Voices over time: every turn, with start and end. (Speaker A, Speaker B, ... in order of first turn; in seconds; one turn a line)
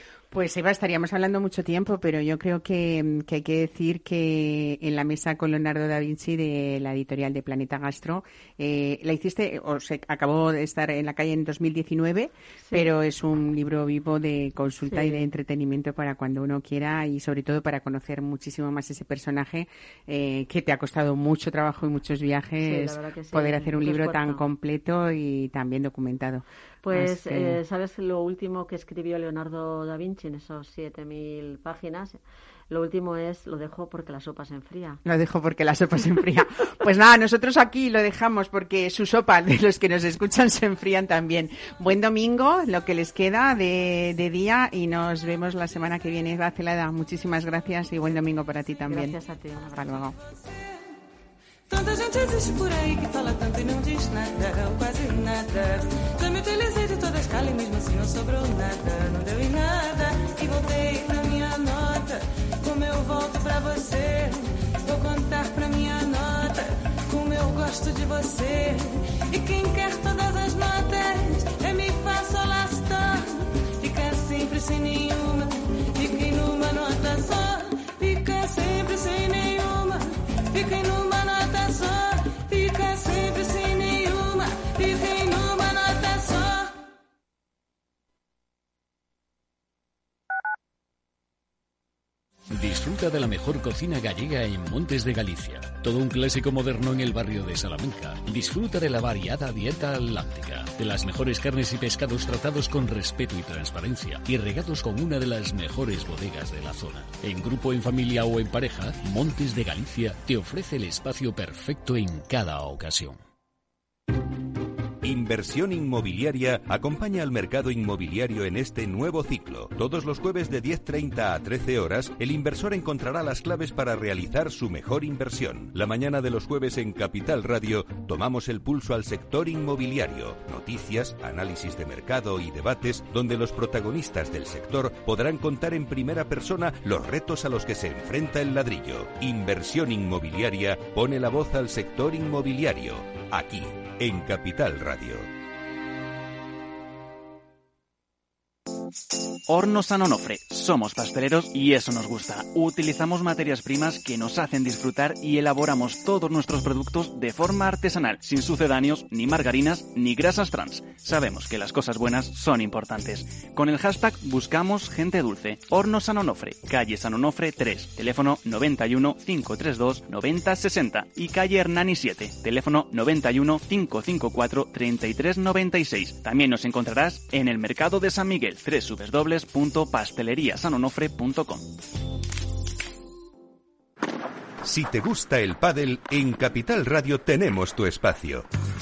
Speaker A: 0.3-27.6
Speaker B: 12.6-12.9
Speaker B: 14.9-15.3
Speaker B: 22.6-24.4
Speaker B: 26.8-32.2
Speaker B: 32.7-35.0
Speaker A: 35.0-49.2
Speaker B: 48.9-50.0
Speaker A: 49.7-50.1
Speaker C: 51.7-86.8
Speaker D: 92.5-113.2
Speaker E: 115.0-145.3
Speaker F: 149.5-181.8
Speaker E: 184.6-188.5